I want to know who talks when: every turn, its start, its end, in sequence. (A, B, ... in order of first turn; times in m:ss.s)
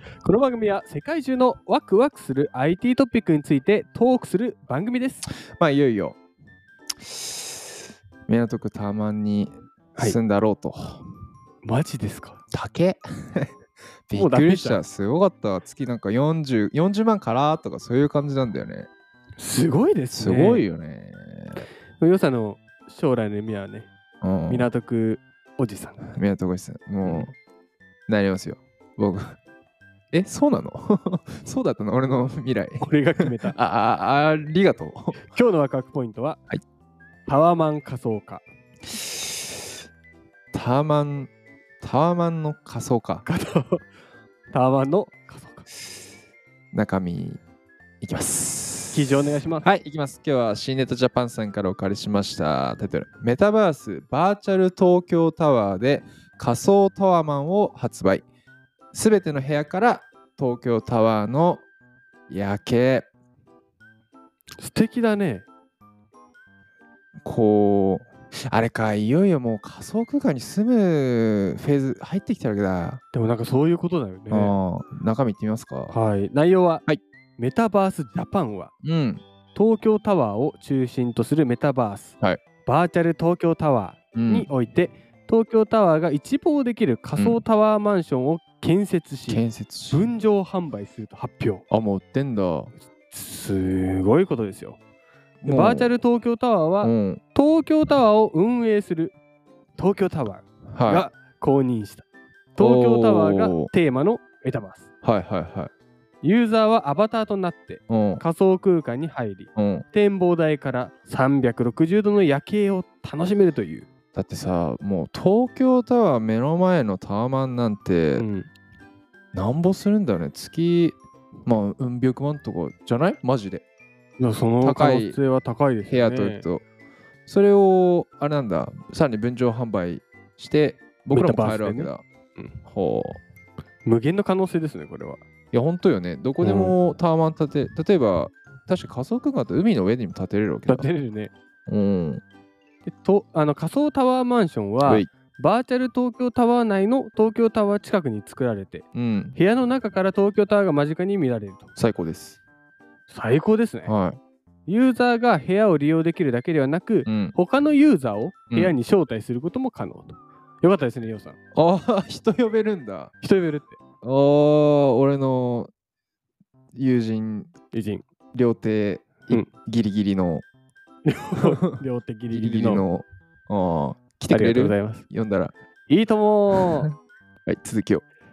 0:00.2-0:05.3 A
0:05.5-0:06.2 B
0:07.0-0:07.6 B
0:08.3-0:11.0 B
0:11.6-0:12.4 A
0:12.5-0:13.5 B
0:14.1-0:18.9 B
0:14.1-0:14.8 A
0:19.4-0:20.6 A
0:20.1-0:21.6 B
0:22.0-0:23.9 A
0:24.2-0:24.7 B
0:24.5-0:26.1 A
0:26.0-0:27.3 B
0:28.1-0:29.4 B
0:30.1-0:35.2 B
0:32.8-0:33.6 A
0:35.2-0:36.4 A
0:37.2-0:38.4 A
0:39.0-0:39.4 B
0:40.5-0:41.3 B
0:41.8-0:43.2 B
0:43.2-0:43.8 A
0:44.5-0:45.6 A
0:46.7-0:47.4 B
0:48.0-0:58.2 B
0:48.9-0:49.7 A
0:58.9-1:01.6 B
1:02.3-1:03.1 B
1:04.6-1:05.4 A
1:07.2-1:13.0 B
1:13.1-1:14.6 A
1:14.3-1:15.9 B
1:15.9-1:16.8 A
1:17.4-1:18.7 A
1:18.8-1:19.2 B
1:19.5-1:31.6 A
1:24.1-1:24.5 B
1:27.2-1:27.4 B
1:29.3-1:30.1 B
1:31.7-1:32.7 B
1:33.1-1:34.8 A
1:35.4-1:35.9 B
1:35.4-1:39.1 A
1:36.8-1:37.2 B
1:39.8-1:42.0 A
1:40.7-1:41.1 B
1:42.6-1:44.9 A
1:42.6-1:43.7 B
1:45.0-1:45.7 B
1:46.2-1:53.9 A
1:47.9-1:48.2 B
1:49.6-1:49.8 B
1:54.1-1:58.2 B
1:58.2-1:58.5 A
1:59.3-2:03.6 B
2:04.2-2:06.5 A
2:04.6-2:05.2 B
2:05.9-2:06.6 B
2:07.3-2:12.0 B
2:11.1-2:12.5 A
2:12.6-2:13.2 B
2:13.8-2:15.2 A
2:15.5-2:20.9 B
2:16.4-2:16.8 A
2:20.7-2:21.3 A
2:21.7-2:22.2 B
2:22.9-2:31.7 A
2:24.8-2:25.1 B
2:28.9-2:29.4 B
2:31.8-2:32.4 B
2:33.1-2:33.9 A
2:33.8-2:34.2 B
2:34.7-2:41.4 A
2:37.0-2:37.4 B
2:41.5-2:43.1 B
2:43.2-2:43.8 A
2:44.0-2:45.7 B
2:46.7-2:47.5 B
2:47.7-2:48.0 A
2:48.3-2:50.4 B
2:51.0-2:52.9 A
2:52.3-2:55.5 B
2:54.3-2:55.0 A
2:55.9-2:56.9 A
2:56.5-2:56.9 B
2:57.4-2:58.0 B